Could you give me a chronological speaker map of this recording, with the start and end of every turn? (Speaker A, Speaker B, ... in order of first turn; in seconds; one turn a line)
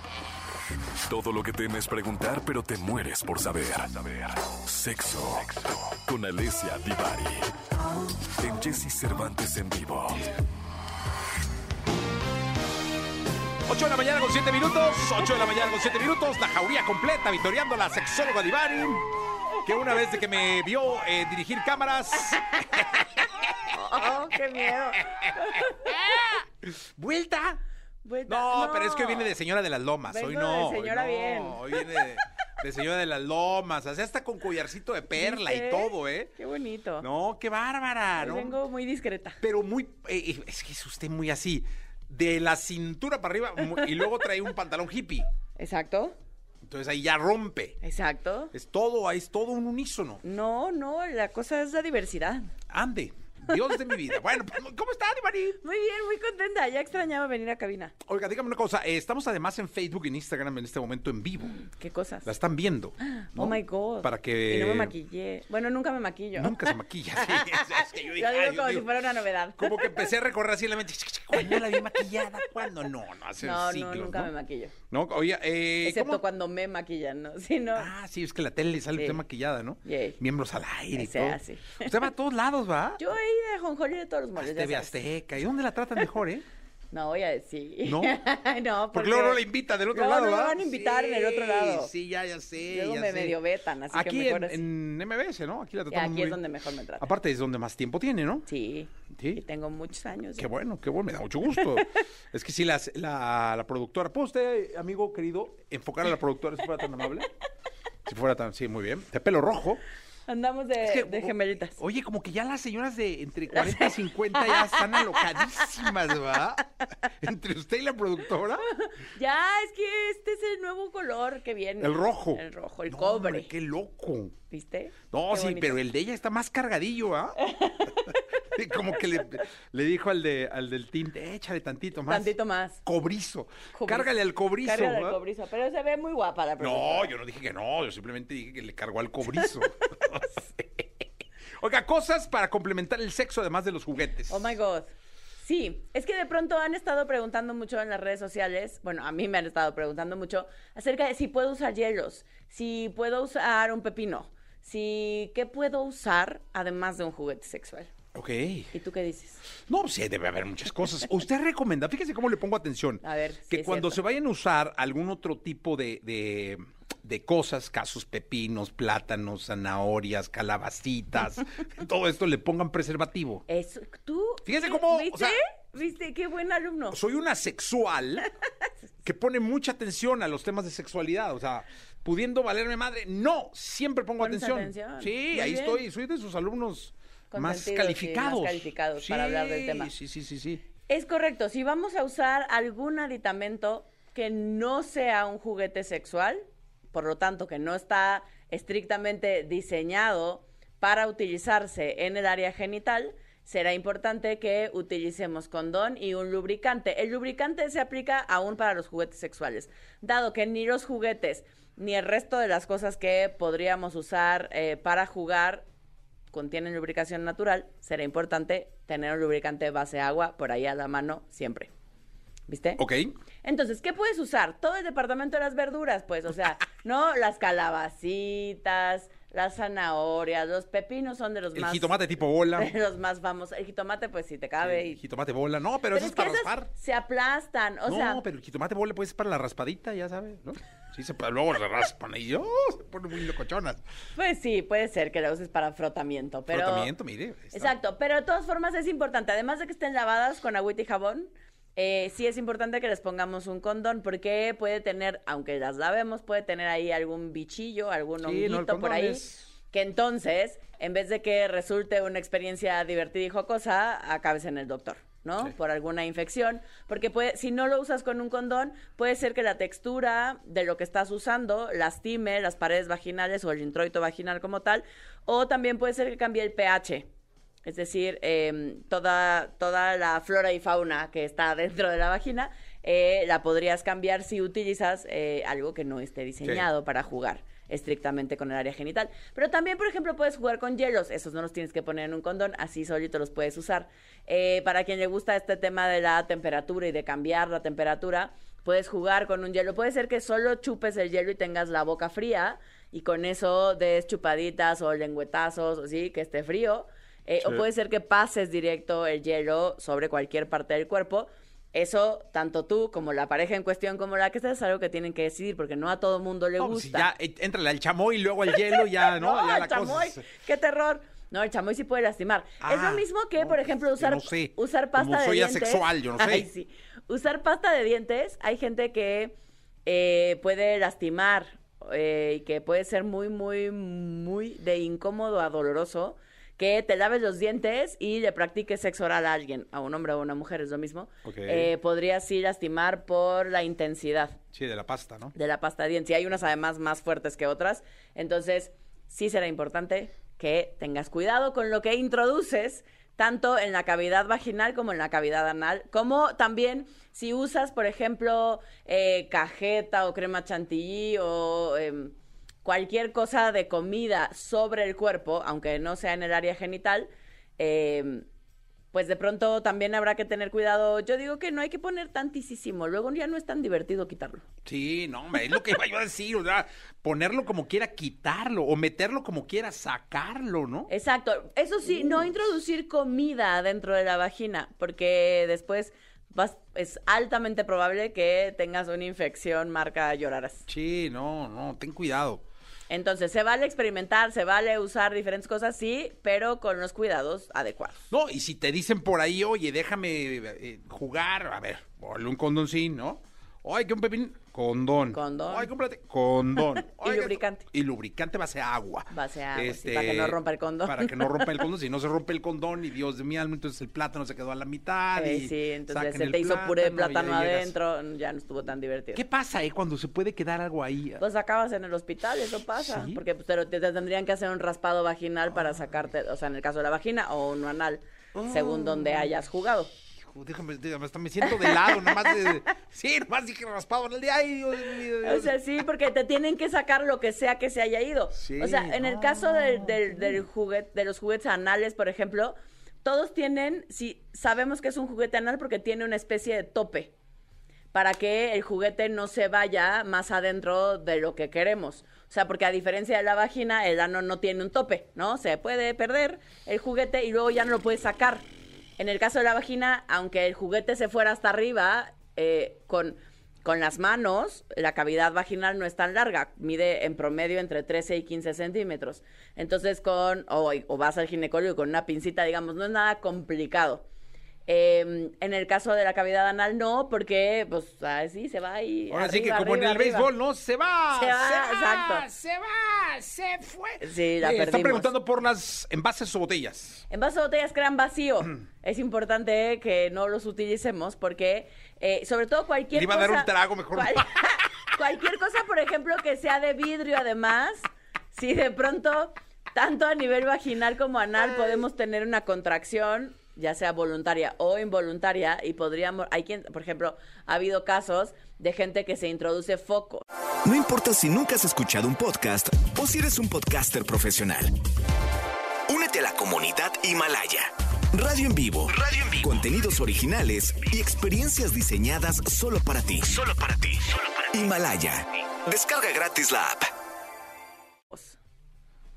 Speaker A: 1.1-7.5
Speaker A: 8.4-10.3
Speaker B: 13.7-19.1
Speaker B: 19.6-22.9
Speaker C: 22.6-23.0
Speaker C: 23.7-26.1
Speaker B: 24.0-27.6
Speaker C: 28.0-29.4
Speaker B: 28.3-36.3
Speaker C: 30.1-32.0
Speaker C: 35.1-37.1
Speaker B: 37.0-38.6
Speaker C: 38.2-39.4
Speaker B: 39.4-45.3
Speaker C: 45.6-46.2
Speaker B: 46.6-47.8
Speaker C: 47.8-48.5
Speaker B: 48.5-50.2
Speaker C: 50.2-52.5
Speaker B: 52.7-55.6
Speaker C: 55.6-57.9
Speaker B: 58.0-61.6
Speaker C: 61.6-62.3
Speaker B: 62.2-65.0
Speaker C: 63.0-70.1
Speaker B: 66.4-68.9
Speaker B: 69.6-74.3
Speaker C: 71.3-72.1
Speaker C: 73.4-74.7
Speaker B: 74.9-76.2
Speaker C: 75.8-77.9
Speaker B: 77.8-83.0
Speaker C: 79.0-79.2
Speaker C: 79.8-80.2
Speaker C: 80.9-81.9
Speaker C: 83.0-85.0
Speaker B: 84.4-86.5
Speaker C: 86.9-91.9
Speaker B: 87.8-88.2
Speaker B: 88.9-93.4
Speaker C: 92.7-94.6
Speaker B: 93.9-96.4
Speaker C: 95.9-97.1
Speaker B: 97.0-98.5
Speaker C: 98.5-100.5
Speaker B: 99.1-99.4
Speaker B: 100.4-107.3
Speaker B: 108.1-109.8
Speaker C: 110.3-111.8
Speaker B: 110.8-118.7
Speaker C: 113.5-115.7
Speaker C: 118.7-123.5
Speaker B: 121.8-124.4
Speaker C: 124.5-125.8
Speaker B: 125.1-127.4
Speaker C: 127.4-128.4
Speaker B: 128.4-132.3
Speaker C: 132.1-132.8
Speaker B: 132.8-135.2
Speaker C: 133.7-137.1
Speaker B: 136.6-140.4
Speaker B: 141.6-144.6
Speaker C: 144.3-157.9
Speaker B: 158.1-158.7
Speaker C: 158.7-159.4
Speaker B: 159.7-173.4
Speaker C: 163.0-164.0
Speaker C: 173.5-177.0
Speaker B: 174.4-175.4
Speaker B: 176.9-178.3
Speaker B: 179.0-190.6
Speaker C: 184.2-185.8
Speaker C: 187.3-189.9
Speaker C: 190.9-215.7
Speaker C: 216.3-221.7
Speaker C: 222.5-222.8
Speaker B: 222.8-223.1
Speaker C: 223.4-232.0
Speaker B: 231.6-232.7
Speaker C: 232.6-235.0
Speaker B: 234.6-236.7
Speaker C: 235.9-238.2
Speaker B: 237.9-243.8
Speaker C: 244.2-246.9
Speaker B: 246.5-247.7
Speaker C: 247.5-277.1
Speaker B: 258.2-259.5
Speaker C: 277.6-317.1
Speaker B: 286.4-286.7
Speaker B: 316.6-320.2
Speaker C: 318.6-344.4
Speaker B: 322.6-326.5
Speaker B: 341.2-341.7
Speaker B: 344.5-345.3
Speaker C: 345.3-368.3
Speaker C: 368.9-374.4
Speaker B: 374.6-380.9
Speaker C: 380.9-390.7
Speaker B: 390.7-392.4
Speaker C: 392.9-398.1
Speaker B: 398.1-417.8
Speaker C: 405.1-405.7
Speaker C: 406.9-407.6
Speaker C: 409.1-411.6
Speaker C: 415.2-419.2
Speaker B: 419.1-421.2
Speaker C: 421.2-429.9
Speaker B: 422.8-423.2
Speaker B: 428.4-429.4
Speaker B: 430.2-435.6
Speaker C: 431.4-432.6
Speaker C: 435.2-447.1
Speaker B: 438.4-440.4
Speaker C: 447.9-458.5
Speaker C: 459.0-474.1
Speaker C: 474.7-480.3
Speaker B: 479.1-487.1
Speaker C: 481.1-482.3
Speaker C: 484.0-485.1
Speaker C: 487.1-497.8
Speaker B: 492.9-494.4
Speaker C: 498.3-510.2
Speaker D: 510.6-514.8
Speaker D: 515.9-526.9
Speaker C: 528.1-528.4